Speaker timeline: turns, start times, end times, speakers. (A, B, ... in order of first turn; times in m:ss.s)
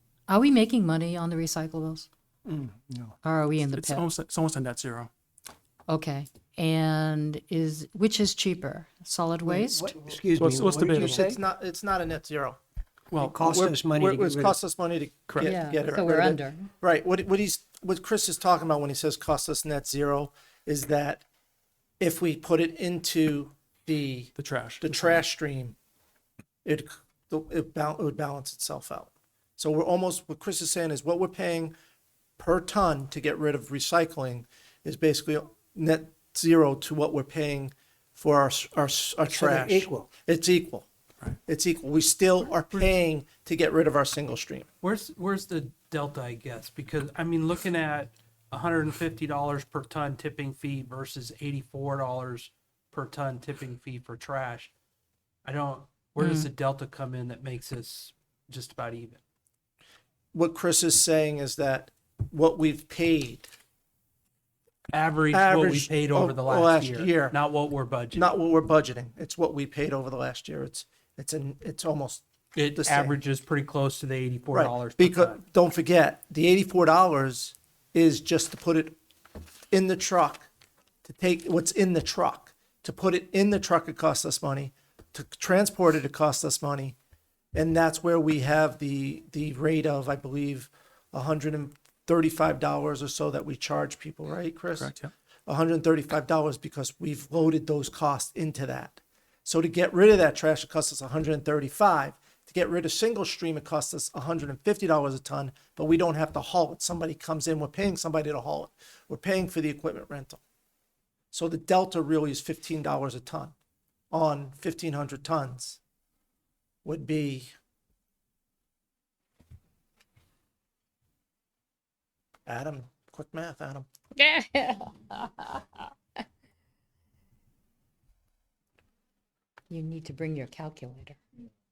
0:00.3-0:02.1 A
0:02.4-0:03.2 B
0:03.2-0:04.1 A
0:03.6-0:05.1 C
0:05.9-0:10.0 A
0:09.4-0:11.4 B
0:10.4-0:11.2 C
0:10.9-0:12.6 D
0:13.2-0:14.6 B
0:13.2-0:21.2 D
0:15.3-0:15.6 C
0:15.4-0:16.7 A
0:22.0-0:25.8 D
0:24.4-0:25.2 C
0:26.6-0:31.7 D
0:32.4-0:40.9 D
0:39.3-0:40.1 B
0:41.4-0:44.7 D
0:44.8-0:54.7 E
0:55.4-0:59.2 E
0:56.2-0:56.5 A
1:00.3-1:03.5 D
1:04.9-1:08.3 E
1:05.3-1:07.4 D
1:08.1-1:13.2 D
1:12.6-1:15.4 E
1:14.5-1:19.0 D
1:19.7-1:20.5 D
1:21.0-1:27.0 D
1:27.5-1:34.9 D
1:34.8-1:35.1 C
1:35.5-1:50.4 D
1:51.3-1:53.6 D
1:54.1-1:55.8 D
1:56.8-1:57.5 D
2:02.5-2:03.9 D
2:04.2-2:05.4 A
2:09.7-2:11.2 A